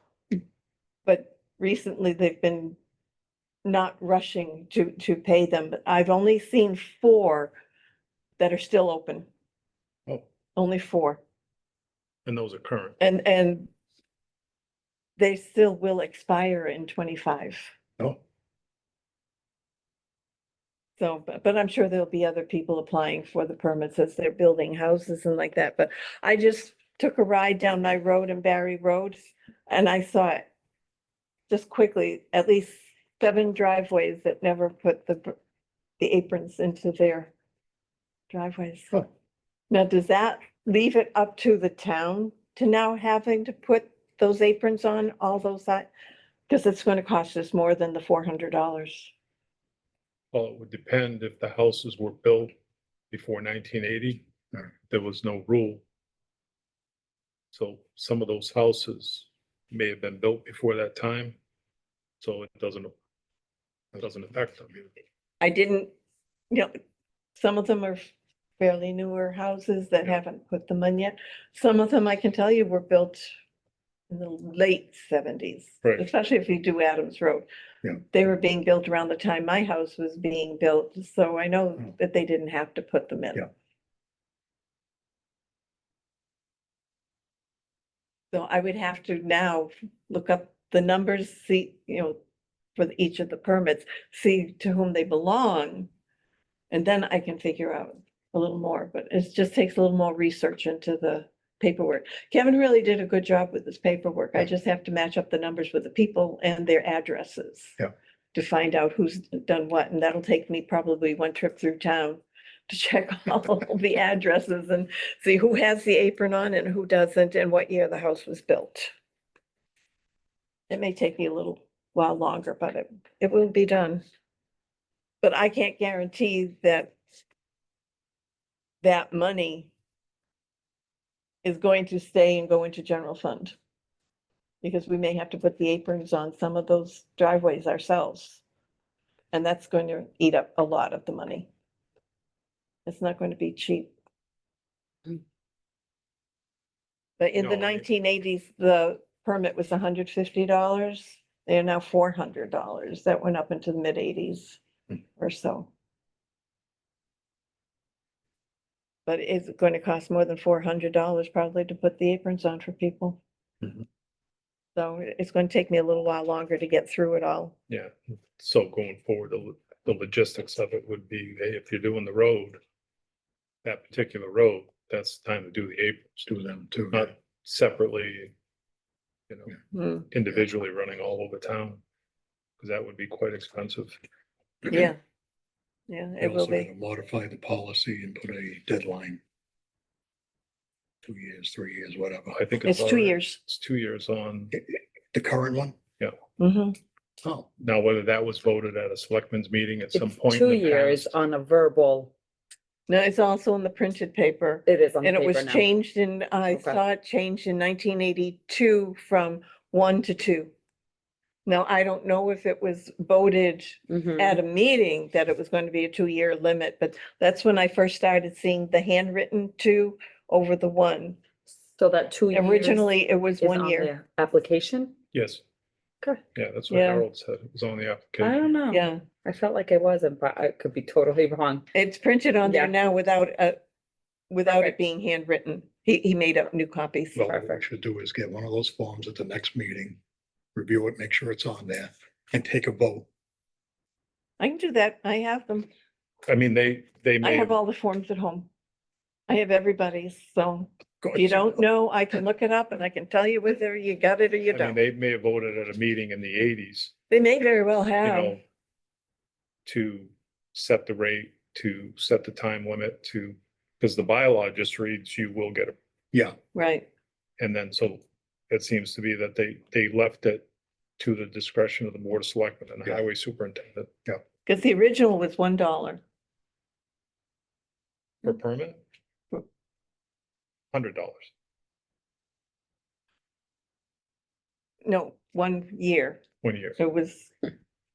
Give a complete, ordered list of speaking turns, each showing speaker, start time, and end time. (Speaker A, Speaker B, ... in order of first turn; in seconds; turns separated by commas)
Speaker A: 1.0-2.8, Speaker A: 3.6-7.5, Speaker A: 8.4-9.2, Speaker A: 10.6-11.2, Speaker B: 12.2-13.0, Speaker A: 13.0-13.7, Speaker A: 15.2-17.7, Speaker A: 21.0-30.4, Speaker A: 31.5-35.3, Speaker A: 36.0-37.3, Speaker A: 38.3-39.0, Speaker A: 39.7-45.9, Speaker A: 46.5-49.1, Speaker B: 50.3-52.5, Speaker B: 53.1-54.3, Speaker B: 54.9-55.8, Speaker B: 57.5-61.4, Speaker B: 62.2-62.9, Speaker B: 63.9-64.7, Speaker A: 65.4-65.9, Speaker A: 67.4-73.3, Speaker A: 74.1-77.5, Speaker A: 78.1-83.5, Speaker A: 88.3-92.2, Speaker A: 92.8-95.9, Speaker A: 96.7-107.8, Speaker A: 108.3-118.9, Speaker A: 120.7-124.0, Speaker A: 125.2-126.9, Speaker A: 128.8-129.7, Speaker A: 131.4-133.6, Speaker A: 134.6-138.4, Speaker A: 139.3-141.5, Speaker A: 142.8-143.9, Speaker A: 147.2-154.6, Speaker B: 147.4-147.9, Speaker A: 155.2-155.7, Speaker A: 159.1-163.2, Speaker A: 164.8-167.5, Speaker B: 167.7-172.6, Speaker B: 173.6-176.3, Speaker C: 176.3-177.1, Speaker B: 176.9-178.3, Speaker B: 179.3-179.6, Speaker A: 179.7-180.1, Speaker B: 180.1-181.8, Speaker B: 182.6-184.0, Speaker A: 184.7-185.0, Speaker A: 185.9-186.7, Speaker C: 186.2-189.2, Speaker C: 191.0-192.4, Speaker B: 192.3-194.5, Speaker A: 192.6-193.4, Speaker C: 194.5-195.8, Speaker A: 196.4-196.8, Speaker C: 197.2-197.5, Speaker B: 197.6-201.1, Speaker D: 199.9-202.1, Speaker A: 202.9-210.5, Speaker D: 204.7-205.7, Speaker D: 206.5-206.8, Speaker A: 211.4-221.2, Speaker D: 213.9-214.4, Speaker D: 221.7-222.9, Speaker A: 222.3-223.9, Speaker D: 223.4-224.9, Speaker B: 225.1-225.4, Speaker B: 226.3-228.4, Speaker A: 226.7-227.0, Speaker D: 228.2-231.6, Speaker A: 228.7-229.0, Speaker A: 231.7-233.6, Speaker D: 232.4-232.7, Speaker A: 234.3-237.4, Speaker D: 234.5-234.7, Speaker C: 237.2-240.0, Speaker C: 240.5-243.1, Speaker A: 244.4-245.7, Speaker B: 246.3-247.6, Speaker A: 247.2-248.5, Speaker A: 249.3-254.8, Speaker C: 251.0-251.6, Speaker B: 254.5-256.9, Speaker A: 257.1-258.4, Speaker B: 258.0-258.4, Speaker B: 259.6-265.7, Speaker A: 266.5-266.9, Speaker B: 267.4-270.4, Speaker B: 271.0-273.9, Speaker A: 274.4-276.0, Speaker B: 278.2-278.8, Speaker B: 280.7-281.3, Speaker A: 284.8-286.2, Speaker B: 286.4-286.8, Speaker A: 286.8-287.3